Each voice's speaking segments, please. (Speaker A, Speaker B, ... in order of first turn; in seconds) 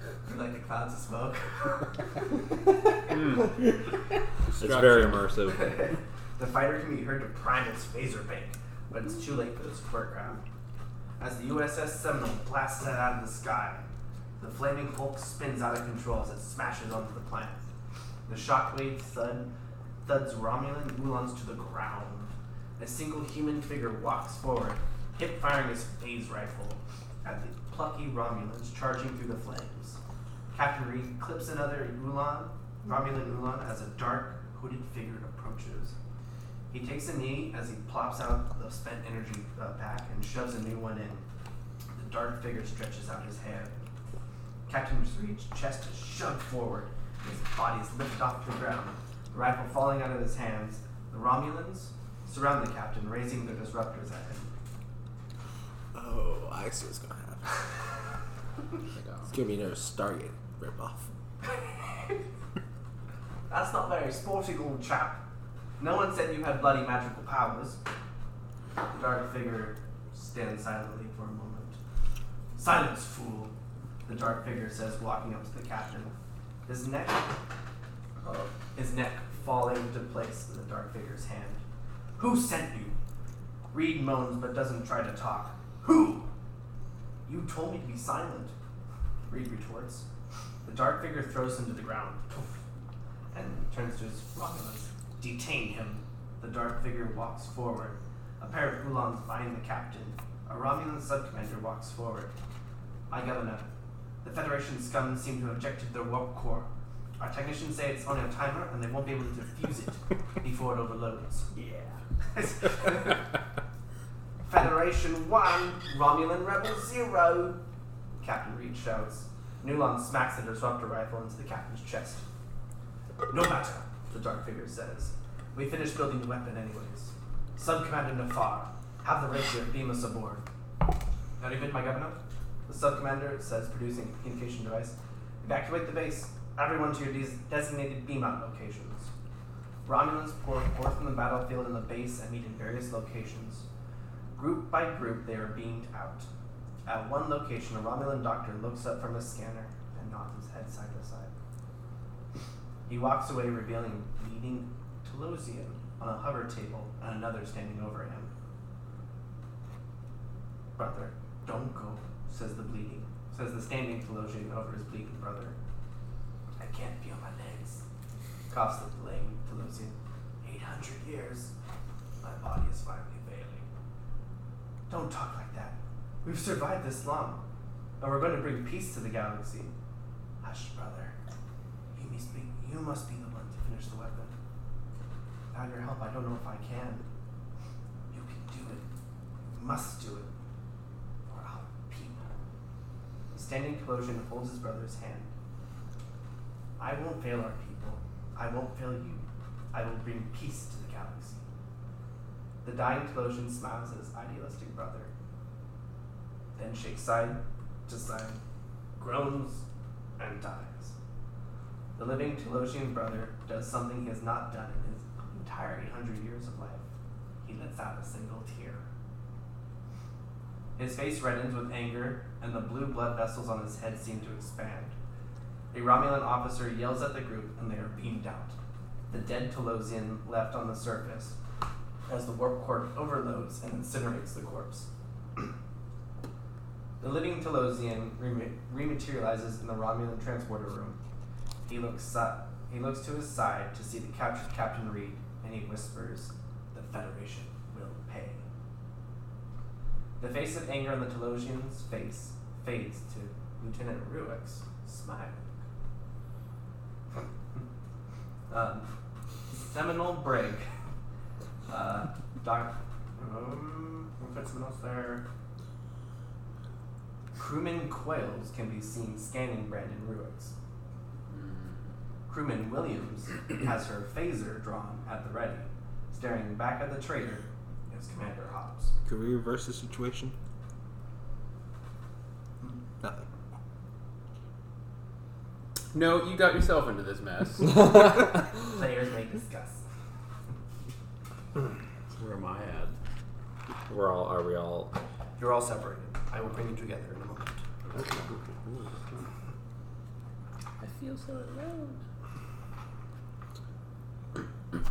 Speaker A: 0.2-1.9, 5.5-10.4, 11.2-13.8, 14.4-17.6, 18.3-19.5, 20.0-30.0, 30.5-35.9, 36.7-41.2, 41.9-43.7, 44.7-54.5, 63.5-65.2, 65.8-67.8, 68.9-71.8, 72.5-73.5, 74.0-76.1, 76.7-77.4, 78.2-81.6, 82.2-83.0, 83.7-86.3, 87.2-88.5, 89.3-90.0, 90.6-92.6, 93.3-102.3, 103.1-103.6, 104.2-113.2, 114.4-117.6, 118.2-122.2, 123.3-130.4, 131.4-139.1, 139.8-143.7, 144.3-146.3, 146.8-151.3, 152.8-158.3, 160.8-165.6, 166.6-167.8, 168.5-171.5, 172.2-173.7, 174.9-177.4, 178.0-179.7, 180.4-181.1, 181.9-184.3, 185.5-187.1, 188.1-188.9, 189.4-190.3, 191.3-192.3, 193.3-195.3, 196.8-201.4, 202.6-205.1, 206.6-208.4, 209.0-209.6, 210.2-210.9, 211.9-216.8, 217.4-218.8, 220.8-224.9, 225.7-228.6, 229.1-231.3, 232.1-234.9, 237.0-241.0, 241.7-248.5, 250.2-255.5, 257.2-257.6, 258.5-258.9, 259.5-260.7, 261.7-265.2, 267.4-270.5, 272.3-278.9, 288.7-289.8, 295.4-297.6
Speaker B: 3.1-3.4, 4.6-5.2, 271.3-271.7, 285.9-287.7, 300.8-302.0
Speaker C: 4.5-5.7, 287.8-288.2, 293.9-294.9
Speaker D: 55.9-57.5, 59.2-61.1, 279.0-280.3
Speaker E: 292.1-292.9, 297.9-299.0